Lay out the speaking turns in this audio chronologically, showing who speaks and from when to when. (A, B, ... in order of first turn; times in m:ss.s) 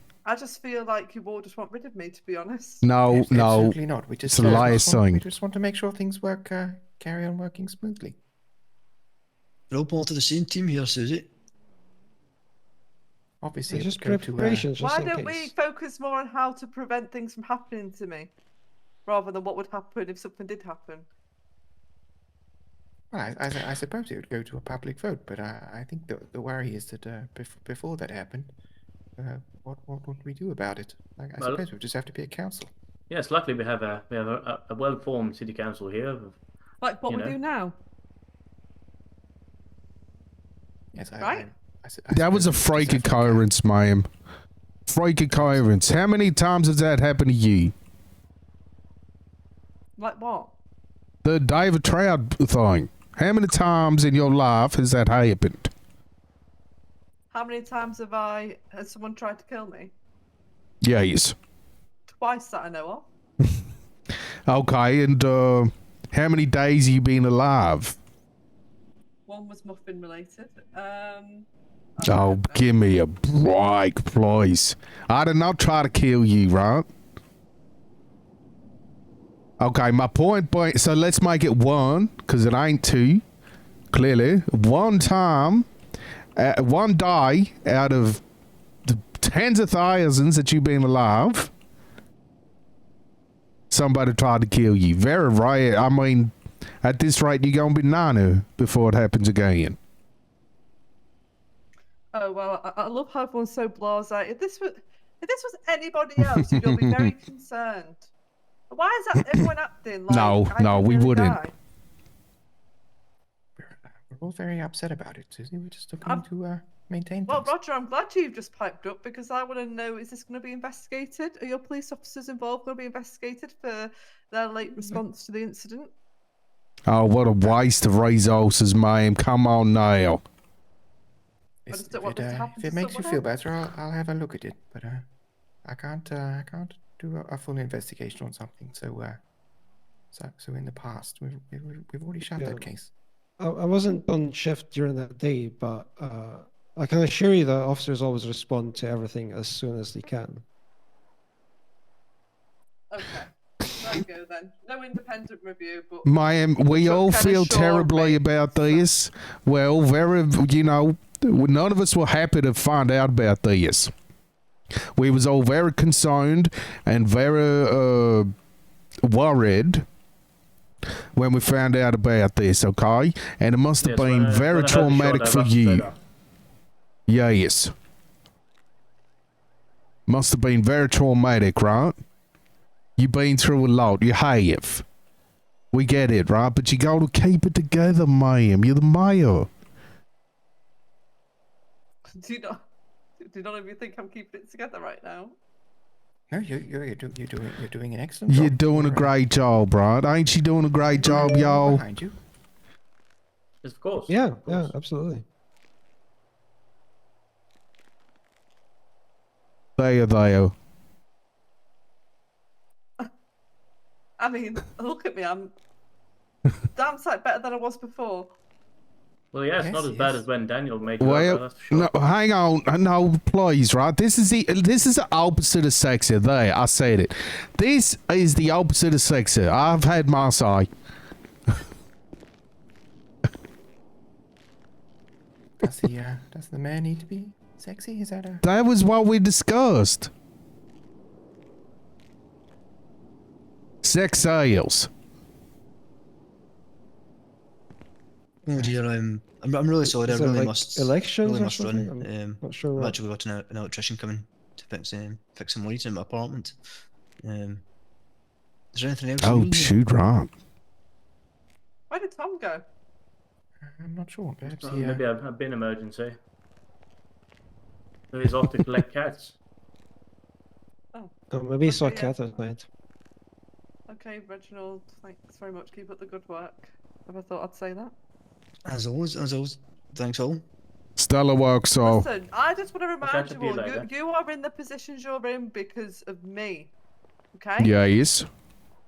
0:00.2-0:02.8 A
0:02.8-0:05.2 B
0:03.1-0:08.2 C
0:09.7-0:11.3 D
0:13.4-0:14.7 C
0:13.7-0:15.5 E
0:14.8-0:18.3 A
0:19.0-0:21.1 A
0:23.1-0:28.5 C
0:29.2-0:32.7 C
0:31.4-0:31.6 F
0:33.1-0:36.4 F
0:36.8-0:37.8 A
0:37.1-0:37.4 F
0:40.9-0:43.5 C
0:41.2-0:41.4 A
0:42.1-0:44.1 B
0:44.9-0:47.7 B
0:45.4-0:45.6 C
0:50.0-0:50.5 A
0:51.2-0:55.7 B
0:57.3-0:59.9 A
1:00.8-1:01.3 B
1:02.1-1:03.1 A
1:04.5-1:08.0 B
1:09.3-1:12.6 A
1:12.0-1:16.9 B
1:19.6-1:23.2 B
1:23.9-1:25.7 B
1:26.4-1:28.2 B
1:28.8-1:31.5 B
1:33.7-1:39.8 B
1:42.1-1:48.1 A
1:46.4-1:47.1 B
1:48.7-1:51.5 A
1:50.1-1:51.4 B
1:53.6-1:57.5 C
1:57.3-2:05.9 A
2:06.9-2:10.2 B
2:11.6-2:15.0 C
2:11.7-2:13.2 A
2:15.6-2:19.2 C
2:20.1-2:22.9 C
2:22.3-2:22.6 E
2:23.4-2:30.4 E
2:32.9-2:36.1 A
2:36.0-2:43.9 B
2:36.7-2:38.9 A
2:44.9-2:48.3 B
2:49.0-2:49.8 B
2:51.1-2:55.9 B
2:53.8-2:56.0 F
2:57.1-2:57.7 B
3:00.1-3:02.0 B
3:03.0-3:04.8 B
3:05.7-3:09.5 B
3:12.1-3:12.6 A
3:13.2-3:15.4 A
3:16.3-3:19.2 C
3:18.3-3:21.8 B
3:20.8-3:22.2 C
3:23.6-3:24.6 F
3:24.1-3:25.2 E
3:29.8-3:30.5 B
3:34.2-3:35.5 A
3:36.7-3:38.3 A
3:39.3-3:41.9 F
3:39.6-3:40.2 C
3:41.0-3:50.7 B
3:55.6-3:58.4 C
3:58.4-4:00.1 B
4:03.8-4:04.9 B
4:08.4-4:16.6 D
4:09.8-4:13.0 E
4:17.2-4:17.6 D
4:18.7-4:19.7 D
4:19.2-4:20.3 B
4:21.9-4:22.6 A
4:23.6-4:25.0 C
4:24.4-4:26.2 F
4:28.1-4:29.4 F
4:31.3-4:32.7 E
4:31.6-4:32.1 A
4:33.9-4:37.9 A
4:38.6-4:40.4 D
4:41.0-4:42.1 B
4:41.8-4:46.7 A
4:43.0-4:43.9 F
4:47.3-4:47.7 A
4:47.6-4:48.2 B